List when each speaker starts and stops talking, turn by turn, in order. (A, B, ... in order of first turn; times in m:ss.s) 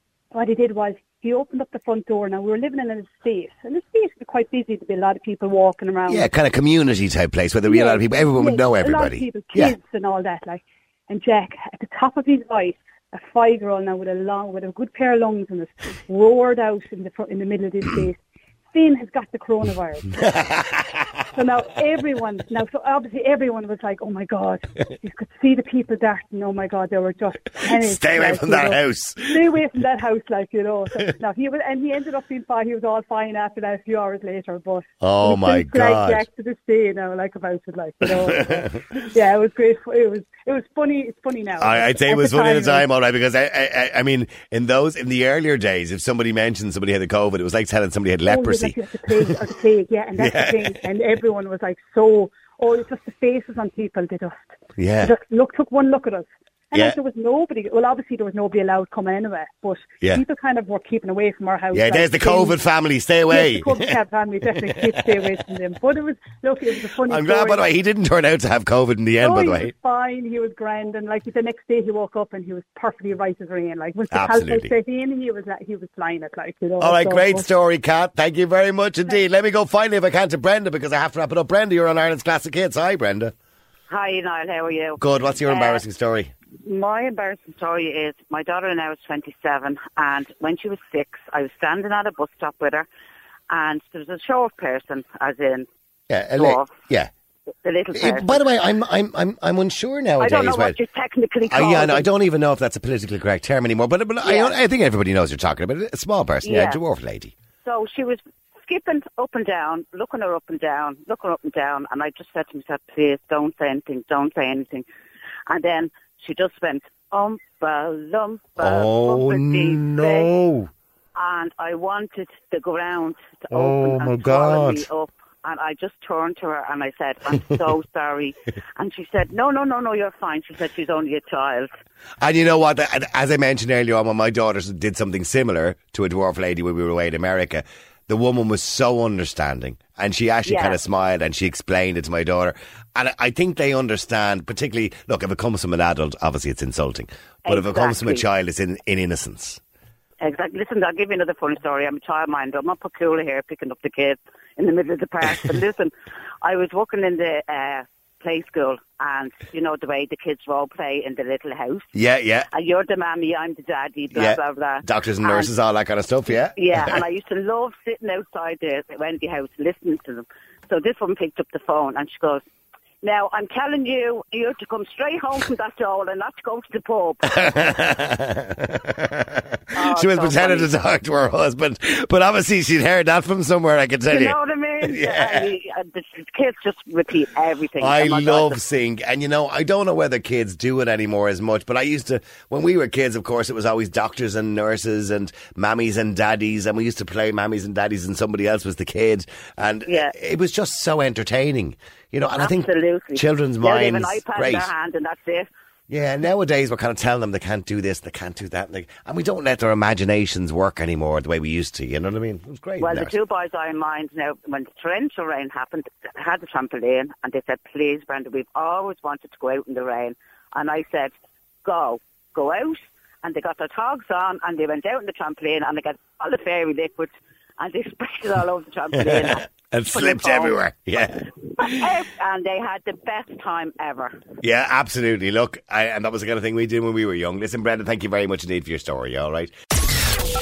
0:00.3-0:06.3 A
0:06.1-0:09.8 B
0:07.7-0:18.2 A
0:18.7-0:20.2 A
0:20.2-0:21.0 B
0:21.3-0:42.9 A
0:27.6-0:29.6 B
0:35.0-0:36.3 B
0:38.0-0:38.7 B
0:41.6-0:49.4 B
0:48.3-1:02.6 A
0:50.2-0:50.8 B
0:54.8-0:55.1 B
1:01.7-1:04.0 B
1:03.3-1:07.7 A
1:04.5-1:05.2 B
1:07.0-1:09.7 B
1:09.2-1:17.5 A
1:14.1-1:14.7 B
1:16.8-1:23.3 B
1:23.9-1:25.8 C
1:25.0-1:26.3 B
1:26.6-1:32.9 C
1:33.5-1:35.7 C
1:36.1-1:37.1 B
1:36.4-1:36.7 C
1:37.6-1:38.4 C
1:37.9-1:40.8 B
1:40.2-1:42.1 C
1:41.5-1:47.3 B
1:44.2-1:44.6 C
1:46.4-1:46.8 C
1:47.6-1:54.8 C
1:55.5-2:00.3 C
1:58.6-2:00.7 B
2:01.2-2:11.7 C
2:03.5-2:04.9 B
2:12.2-2:29.6 B
2:20.5-2:20.8 C
2:27.5-2:28.2 C
2:30.2-2:35.9 C
2:36.4-2:41.9 C
2:41.9-2:42.5 B
2:42.5-2:45.5 C
2:44.1-2:47.0 B
2:46.6-2:52.4 C
2:53.0-2:57.4 C
2:57.3-3:05.5 B
2:59.8-3:00.7 C
3:04.1-3:08.6 C
3:07.8-3:24.7 B
3:19.9-3:20.1 C
3:22.4-3:25.5 C
3:25.9-3:33.1 B
3:32.8-3:41.1 C
3:41.6-3:50.6 C
3:49.0-3:51.8 B
3:51.6-3:54.2 C
3:54.4-3:59.5 B